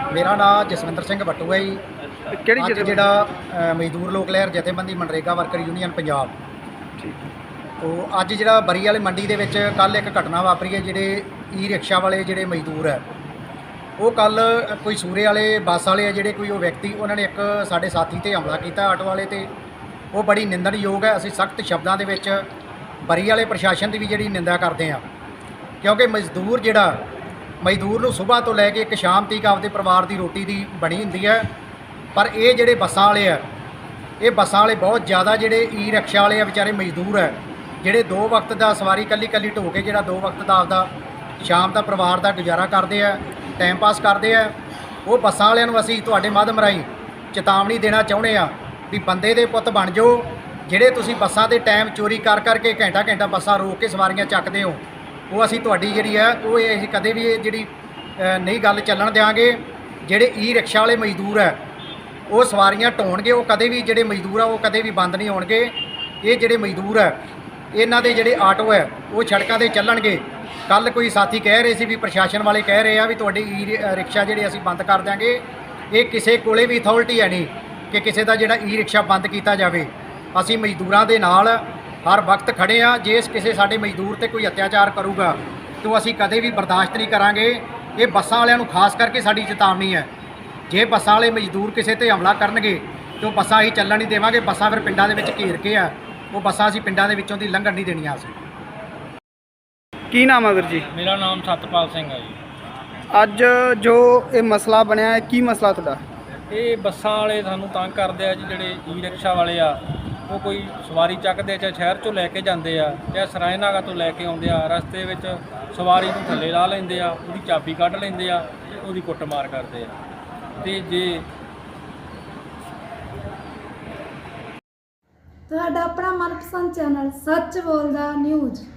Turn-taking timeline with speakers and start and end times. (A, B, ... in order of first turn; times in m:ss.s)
0:00.1-0:01.8 A
0:02.3-0:03.0 B
0:02.6-0:06.3 A
0:07.8-0:13.0 A
0:14.0-0:19.5 A
0:20.1-0:22.4 A
0:23.1-0:25.0 A
0:25.8-0:27.0 A
0:27.6-0:31.5 A
0:32.2-0:33.4 A
0:34.2-0:40.9 A
0:41.4-0:44.5 A
0:45.1-1:01.6 A
1:02.3-1:07.2 A
1:07.7-1:30.1 A
1:30.7-1:38.4 A
1:40.1-1:40.9 B
1:40.9-1:42.4 C
1:43.1-1:46.0 B
1:46.5-2:00.0 C
2:00.6-2:01.3 C
2:05.5-2:08.6 D